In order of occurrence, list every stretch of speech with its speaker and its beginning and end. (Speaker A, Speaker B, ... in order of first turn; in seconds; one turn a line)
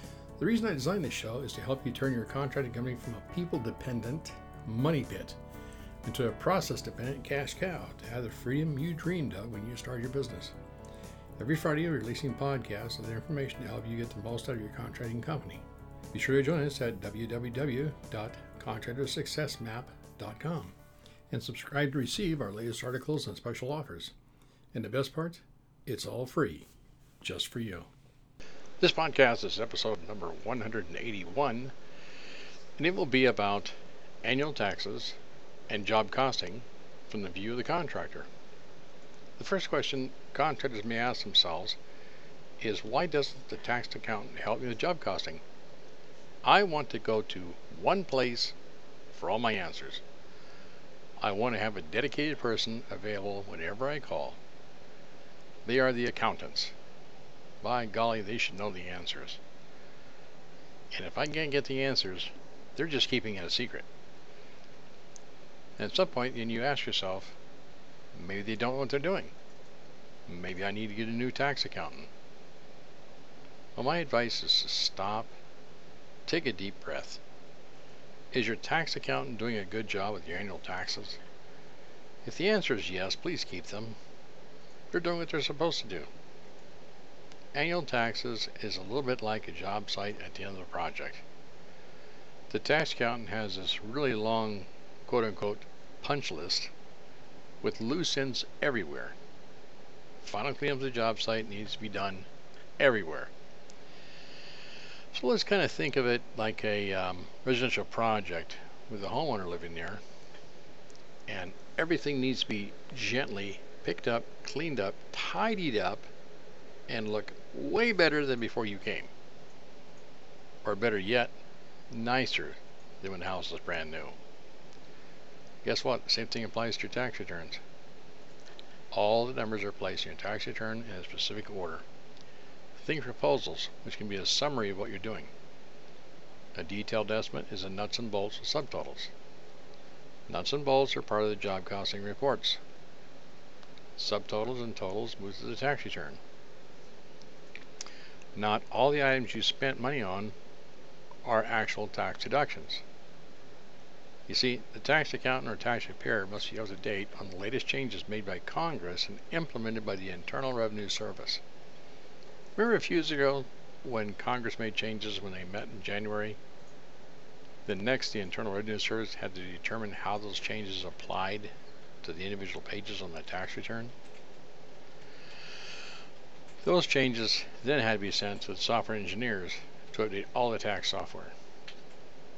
Speaker A: 0.4-5.4
Speaker A: 6.0-10.5
Speaker A: 11.4-20.8
Speaker A: 21.3-24.1
Speaker A: 24.7-26.7
Speaker A: 27.2-27.9
Speaker A: 28.8-31.7
Speaker A: 32.8-35.2
Speaker A: 35.7-38.3
Speaker A: 39.4-41.8
Speaker A: 42.6-45.4
Speaker A: 46.4-48.5
Speaker A: 49.1-50.0
Speaker A: 51.2-54.4
Speaker A: 55.6-56.7
Speaker A: 57.6-59.4
Speaker A: 60.9-63.9
Speaker A: 65.8-67.4
Speaker A: 68.1-69.3
Speaker A: 70.3-72.1
Speaker A: 73.8-75.3
Speaker A: 76.2-77.2
Speaker A: 78.3-81.2
Speaker A: 82.2-84.0
Speaker A: 84.9-86.1
Speaker A: 87.5-91.2
Speaker A: 92.5-96.7
Speaker A: 97.6-99.1
Speaker A: 100.2-103.3
Speaker A: 105.1-110.0
Speaker A: 111.3-116.1
Speaker A: 116.9-119.1
Speaker A: 120.6-121.3
Speaker A: 121.9-124.2
Speaker A: 125.6-127.6
Speaker A: 128.9-131.8
Speaker A: 132.8-135.3
Speaker A: 136.5-139.1
Speaker A: 140.3-142.6
Speaker A: 144.0-146.2
Speaker A: 148.3-150.3
Speaker A: 151.2-152.8
Speaker A: 154.3-161.4
Speaker A: 162.6-166.4
Speaker A: 167.7-171.5
Speaker A: 172.0-173.9
Speaker A: 176.6-181.3